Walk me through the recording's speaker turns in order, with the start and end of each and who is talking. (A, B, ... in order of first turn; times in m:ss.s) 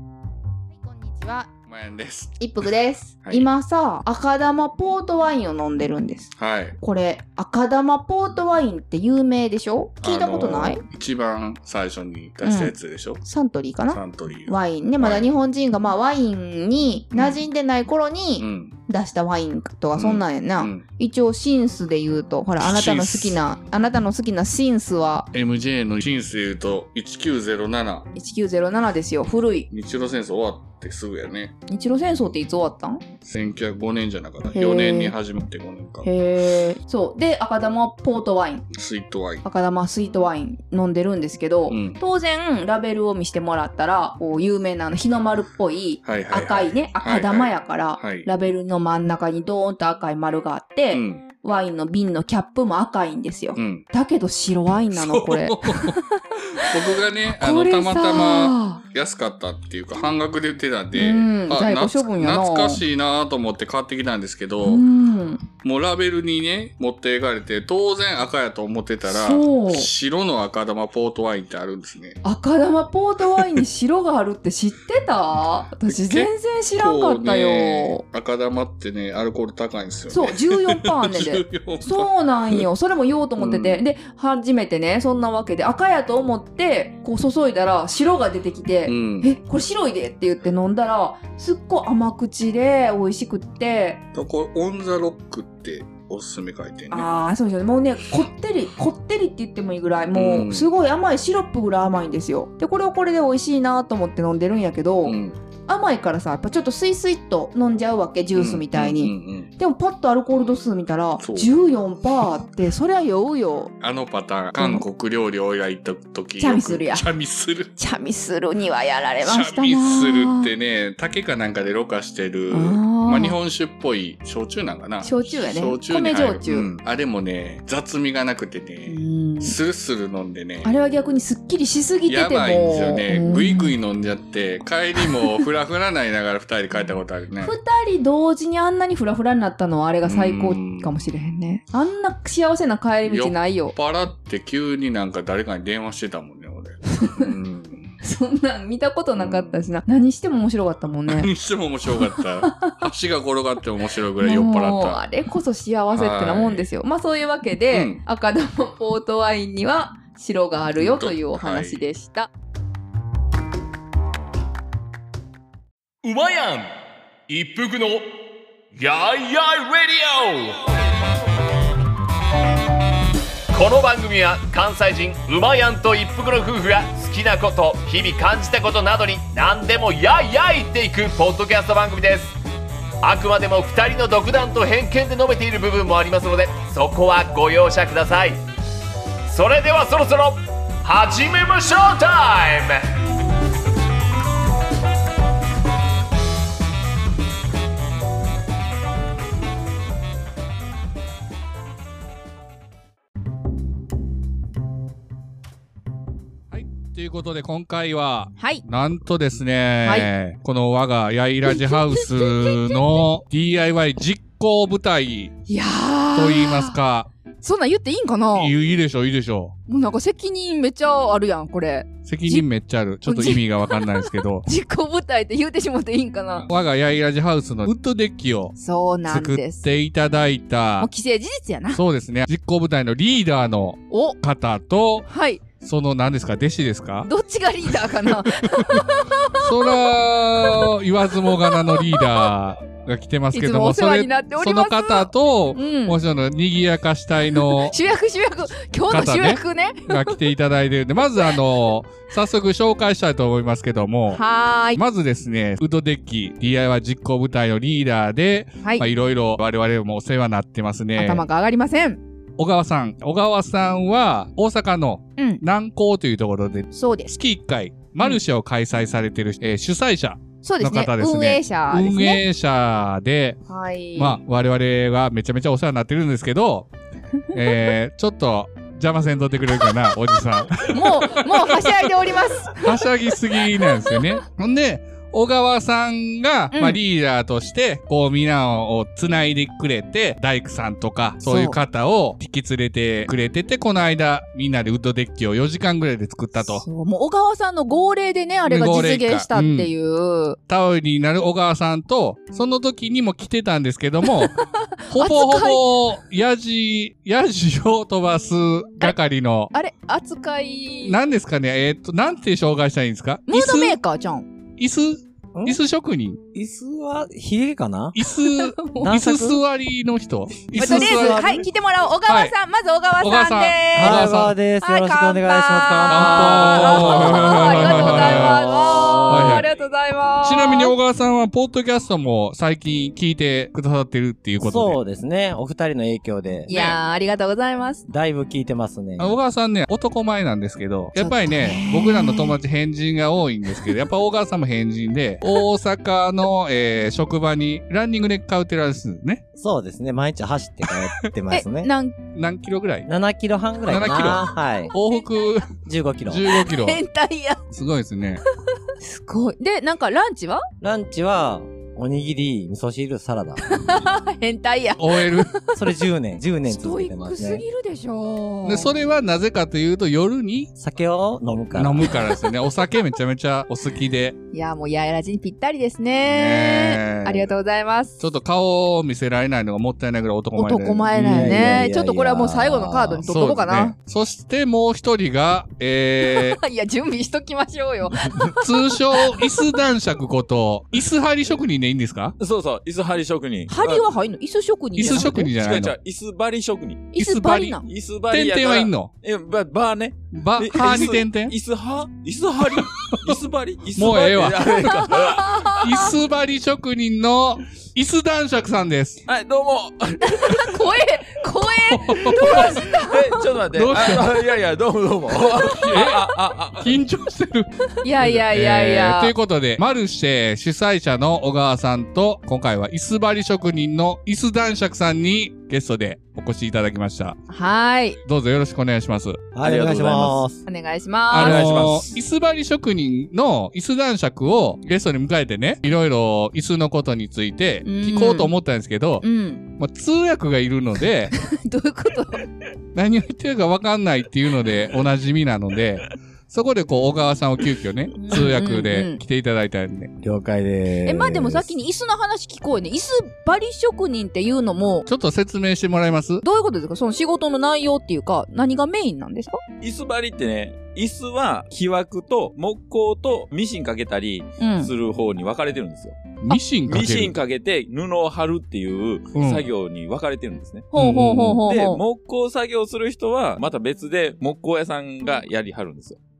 0:00.7-0:01.5 A
0:01.7-0:02.4 B
0:02.4-0:10.8 A
0:03.2-0:03.5 B
0:06.3-0:06.8 B
0:10.0-0:13.2 B
0:12.4-0:25.3 A
0:13.9-0:15.3 B
0:17.1-0:17.4 B
0:18.4-0:18.7 B
0:20.0-0:20.8 B
0:22.6-0:23.4 B
0:25.3-0:28.1 B
0:28.1-0:29.7 A
0:29.7-0:31.5 B
0:31.7-0:33.0 A
0:33.2-0:36.1 B
0:34.5-0:35.1 A
0:36.0-0:38.7 A
0:38.7-0:39.4 B
0:39.4-0:56.7 A
0:41.7-0:42.0 B
0:46.0-0:48.3 B
0:50.9-0:51.2 B
0:53.5-0:53.8 B
0:55.2-0:56.0 C
0:56.7-1:04.8 B
0:57.3-0:58.8 A
1:00.9-1:02.8 A
1:04.6-1:05.4 A
1:05.6-1:12.2 B
1:09.0-1:09.9 A
1:12.2-1:18.0 A
1:15.9-1:22.6 B
1:20.1-1:34.0 A
1:23.4-1:23.8 B
1:28.8-1:29.3 B
1:34.1-1:37.1 B
1:36.9-1:45.2 A
1:40.1-1:40.6 B
1:45.0-1:45.4 B
1:45.7-1:53.7 A
1:48.3-1:49.5 B
1:51.2-1:51.5 B
1:53.8-1:57.7 B
1:54.6-1:54.8 A
1:56.4-1:57.0 A
1:57.8-2:00.5 A
1:59.2-2:10.7 B
2:02.5-2:03.4 A
2:05.0-2:06.7 A
2:08.9-2:09.6 A
2:10.6-2:13.7 A
2:12.1-2:17.6 B
2:17.4-2:23.7 A
2:20.0-2:21.0 B
2:23.0-2:27.9 B
2:27.0-2:27.3 A
2:28.0-2:31.3 A
2:29.2-2:29.6 B
2:31.1-2:35.0 B
2:31.9-2:32.9 A
2:34.2-2:42.3 A
2:35.9-2:36.7 B
2:37.7-2:38.0 B
2:40.8-2:41.8 B
2:46.0-2:46.7 D
2:47.3-2:48.1 D
2:48.8-2:50.5 D
2:53.5-3:02.4 D
3:03.0-3:08.4 D
3:09.3-3:12.9 D
3:26.5-3:35.3 C
3:28.4-3:28.6 A
3:29.8-3:30.1 A
3:31.5-3:32.7 A
3:35.5-3:36.8 A
3:36.1-3:37.1 C
3:37.4-3:38.5 A
3:38.3-3:39.5 C
3:39.7-3:42.5 A
3:42.0-3:44.5 C
3:43.0-3:46.5 A
3:46.5-3:48.5 C
3:48.6-3:49.6 A
3:49.1-3:50.9 C
3:50.8-3:51.8 A
3:51.7-3:55.1 C
3:53.9-3:54.2 A
3:55.1-3:55.4 A
3:55.6-3:57.1 C
3:57.0-3:59.8 A
3:58.5-3:58.8 C
3:59.4-4:07.8 C
4:01.3-4:02.3 A
4:03.3-4:06.0 A
4:07.4-4:10.2 A
4:08.9-4:14.2 C
4:14.1-4:14.8 A
4:14.8-4:21.2 C
4:21.0-4:22.0 A
4:22.4-4:33.4 C
4:25.2-4:25.4 A
4:26.7-4:27.2 A
4:30.4-4:32.2 A
4:33.5-4:34.2 A
4:33.9-4:36.7 C
4:37.3-4:41.8 C
4:39.6-4:44.0 A
4:42.5-4:56.6 C
4:46.5-4:46.8 A
4:51.2-4:51.6 A
4:56.4-5:00.4 A
4:58.4-4:59.7 C
5:00.5-5:09.5 C
5:04.9-5:05.6 A
5:09.5-5:11.0 A
5:10.8-5:13.8 C
5:13.3-5:14.3 A
5:14.6-5:16.2 C
5:16.3-5:18.0 E
5:17.9-5:21.3 C
5:18.3-5:18.9 A
5:18.8-5:19.4 E
5:20.4-5:21.5 E
5:20.6-5:30.8 A
5:22.1-5:22.3 C
5:23.0-5:24.4 C
5:23.7-5:29.4 E
5:25.8-5:28.5 C
5:29.1-5:29.5 C
5:30.2-5:34.8 C
5:34.4-5:36.5 E
5:36.5-5:37.8 A
5:36.5-5:36.8 C
5:37.9-5:39.2 E
5:39.0-5:49.2 C
5:41.0-5:42.3 A
5:49.4-5:51.7 E
5:51.3-5:52.0 A
5:52.1-5:52.9 C
5:52.9-5:54.7 E
5:53.7-5:55.5 C
5:55.6-5:56.3 E
5:56.1-5:56.8 C
5:56.5-5:57.4 A
5:57.5-5:58.2 C
5:58.8-6:00.4 A
6:00.6-6:03.4 E
6:03.5-6:05.4 A
6:04.8-6:05.3 C
6:05.6-6:07.4 E
6:06.5-6:08.7 A
6:08.4-6:10.5 C
6:10.6-6:12.1 E
6:11.5-6:14.2 C
6:14.3-6:18.0 A
6:16.0-6:17.3 C
6:18.0-6:21.6 C
6:20.3-6:23.7 A
6:20.9-6:23.1 E
6:23.0-6:26.4 C
6:26.0-6:29.4 A
6:28.4-6:32.1 C
6:32.2-6:33.8 F
6:33.5-6:35.3 A
6:34.8-6:35.7 C
6:34.8-6:36.9 F
6:36.9-6:37.6 A
6:37.0-6:38.9 C
6:37.6-6:45.4 F
6:40.1-6:41.3 C
6:42.5-6:43.2 C
6:43.8-6:45.0 C
6:44.4-6:45.9 A
6:45.5-6:49.0 C
6:49.1-6:50.6 F
6:50.0-6:53.2 A
6:51.7-6:52.6 C
6:52.1-6:56.8 F
6:53.5-6:54.2 C
6:55.3-6:57.5 C
6:57.8-6:59.1 A
6:58.0-7:07.2 C
7:07.3-7:08.0 A
7:08.0-7:09.3 C
7:09.3-7:10.4 E
7:09.4-7:10.2 F
7:10.5-7:11.4 A
7:11.1-7:19.0 C
7:11.2-7:12.0 F
7:17.6-7:18.3 A
7:19.0-7:19.4 A
7:19.6-7:21.1 C
7:21.1-7:22.2 A
7:22.7-7:29.9 C
7:28.0-7:29.0 A
7:30.0-7:31.5 E
7:30.8-7:34.9 A
7:34.9-7:36.2 C
7:36.2-7:39.4 A
7:39.6-7:46.1 F
7:44.4-7:44.7 A
7:46.2-7:47.2 C
7:46.7-7:50.7 F
7:49.1-7:49.5 C
7:50.7-7:51.8 A
7:50.7-7:51.4 C
7:51.4-7:56.0 F